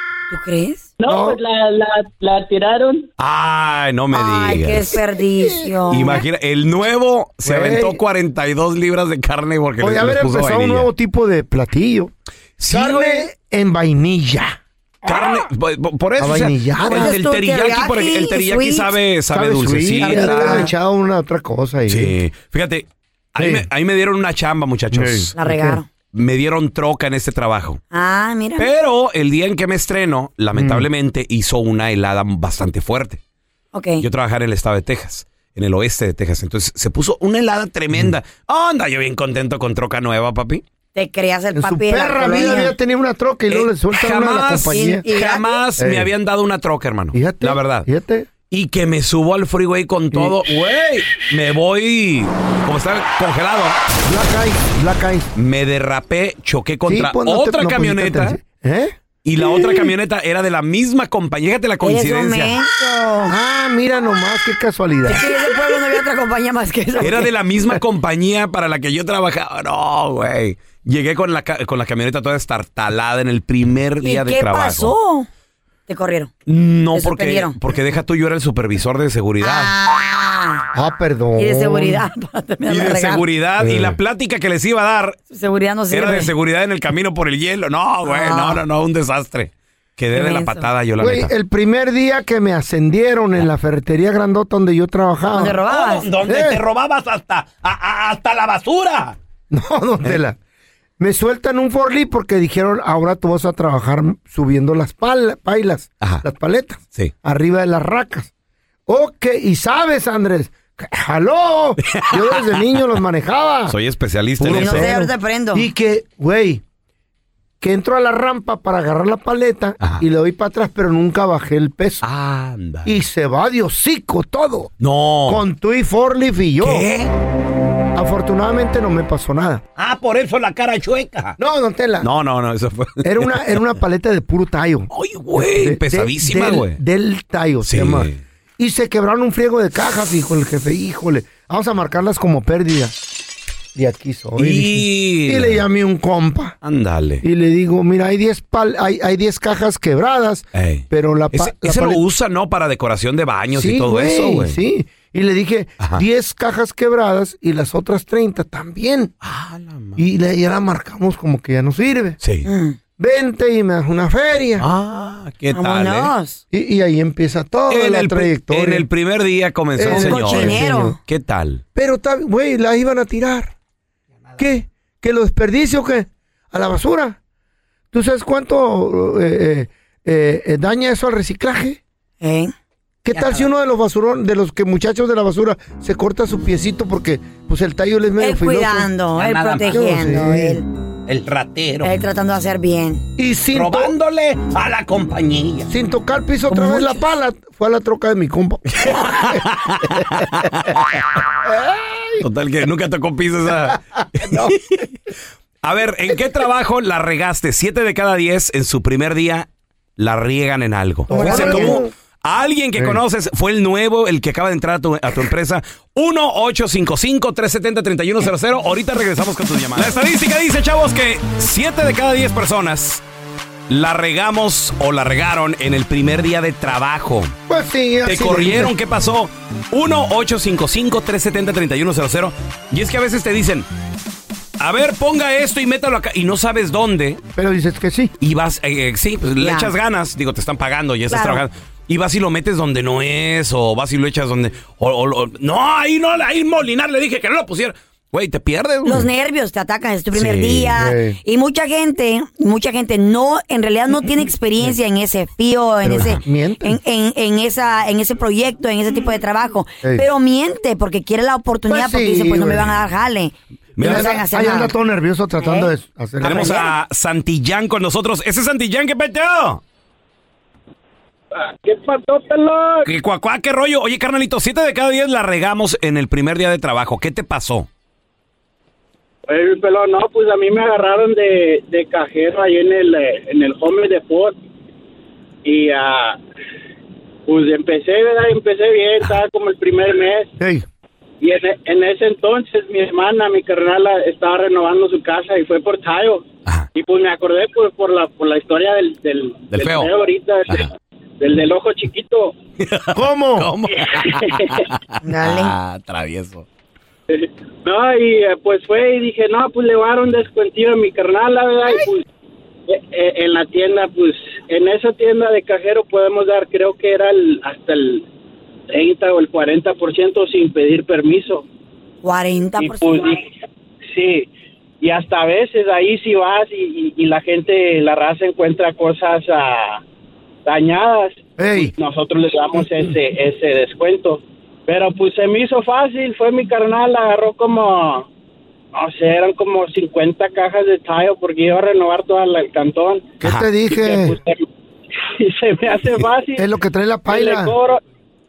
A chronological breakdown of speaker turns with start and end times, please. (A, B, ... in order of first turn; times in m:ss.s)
0:00.3-0:00.9 A
0:01.0-0:03.1 B
0:01.0-0:01.4 C
0:03.2-0:04.9 D
0:04.1-0:06.2 A
0:05.9-0:10.9 D
0:07.4-0:08.0 C
0:09.8-0:12.1 C
0:12.6-0:13.3 D
0:12.7-0:15.3 C
0:15.0-0:20.7 D
0:16.2-0:17.2 C
0:16.9-0:18.9 A
0:19.3-0:22.1 C
0:20.0-0:20.7 A
0:21.9-0:25.3 D
0:23.4-0:23.6 C
0:24.9-0:25.8 C
0:25.4-0:25.9 A
0:26.1-0:27.8 D
0:27.9-0:28.7 A
0:28.6-0:33.2 D
0:30.5-0:30.8 C
0:33.7-0:34.0 A
0:34.0-0:40.6 D
0:40.9-0:42.7 A
0:41.5-0:45.0 C
0:43.5-0:47.9 D
0:44.7-0:45.6 A
0:45.8-0:46.1 C
0:47.1-0:48.3 C
0:48.5-0:53.8 D
0:50.1-0:50.5 C
0:54.0-0:55.3 C
0:55.4-0:58.4 D
0:56.8-0:59.6 C
0:59.2-1:02.6 D
1:01.8-1:03.3 A
1:03.3-1:05.3 C
1:05.1-1:07.3 A
1:07.0-1:14.9 D
1:14.0-1:15.3 A
1:15.9-1:16.3 A
1:16.5-1:19.7 D
1:16.9-1:17.6 A
1:19.4-1:20.7 A
1:20.7-1:22.0 C
1:21.4-1:23.2 A
1:22.6-1:25.2 D
1:23.6-1:24.0 C
1:25.3-1:26.3 A
1:25.9-1:31.3 D
1:28.0-1:28.6 A
1:30.1-1:30.7 A
1:31.0-1:35.6 C
1:35.3-1:36.1 A
1:35.6-1:39.2 D
1:36.2-1:36.6 C
1:39.5-1:40.4 C
1:41.0-1:48.3 C
1:48.9-1:53.8 C
1:51.8-1:52.6 D
1:53.7-1:54.9 D
1:54.4-1:56.6 C
1:54.5-1:55.7 A
1:57.6-2:02.0 C
2:02.0-2:02.9 D
2:02.8-2:04.7 C
2:04.8-2:05.4 D
2:05.3-2:06.9 C
2:06.6-2:07.1 D
2:07.9-2:09.6 C
2:09.8-2:11.4 D
2:11.4-2:12.1 C
2:12.0-2:13.5 D
2:13.0-2:23.0 C
2:14.9-2:16.8 D
2:17.6-2:18.2 D
2:23.7-2:26.6 C
2:24.4-2:25.6 D
2:26.6-2:27.2 D
2:27.2-2:32.0 C
2:30.5-2:34.6 D
2:33.5-2:39.1 C
2:39.2-2:40.0 D
2:40.0-2:42.2 C
2:42.2-2:42.5 D
2:42.4-2:42.8 A
2:43.0-2:44.6 C
2:44.6-2:46.1 D
2:45.5-2:46.4 A
2:46.5-2:48.9 C
2:47.7-2:51.6 D
2:49.8-2:51.0 C
2:49.8-2:51.0 A
2:51.7-2:53.5 C
2:54.4-2:57.2 C
2:57.9-3:01.8 C
3:02.2-3:02.5 A
3:03.0-3:08.9 C
3:03.1-3:03.5 D
3:08.2-3:10.7 A
3:09.1-3:09.9 D
3:09.6-3:10.6 C
3:11.1-3:11.9 D
3:11.8-3:13.0 A
3:13.2-3:13.9 C
3:13.5-3:15.7 D
3:15.7-3:20.5 C
3:16.5-3:17.0 A
3:18.7-3:21.1 D
3:21.4-3:22.2 C
3:22.2-3:24.9 D
3:24.1-3:24.7 C
3:25.6-3:43.0 D
3:31.1-3:31.9 C
3:31.2-3:31.7 A
3:43.7-3:47.3 D
3:47.5-3:48.7 C
3:48.0-3:53.7 D
3:54.6-3:57.2 D
3:57.4-3:58.1 C
3:58.2-4:09.0 D
3:59.4-3:59.7 A
4:01.1-4:01.4 A
4:08.8-4:24.7 A
4:10.1-4:10.7 D
4:10.8-4:11.2 C
4:15.8-4:16.8 C
4:21.7-4:22.8 C
4:23.8-4:24.2 D
4:23.8-4:26.7 C
4:25.4-4:25.7 A
4:26.2-4:29.6 D
4:26.2-4:26.7 A
4:31.3-4:32.9 E
4:32.8-4:37.7 D
4:39.3-4:44.4 E
4:45.4-4:46.2 E
4:47.2-4:50.3 E
4:50.4-4:50.6 C
4:51.2-5:02.3 E
4:59.5-4:59.9 D
5:02.6-5:06.4 D
5:02.9-5:03.5 C
5:03.9-5:04.6 E
5:05.0-5:05.5 A
5:07.1-5:12.0 E
5:12.7-5:18.1 E
5:18.7-5:21.4 E
5:22.0-5:23.0 A
5:22.6-5:23.3 E
5:23.9-5:24.3 E
5:24.8-5:29.8 E
5:30.4-5:38.1 E
5:31.4-5:31.7 C
5:38.7-5:43.1 E
5:43.2-5:44.2 C
5:43.6-5:44.4 E
5:45.2-5:46.5 E
5:46.4-5:47.6 C
5:47.1-5:47.8 E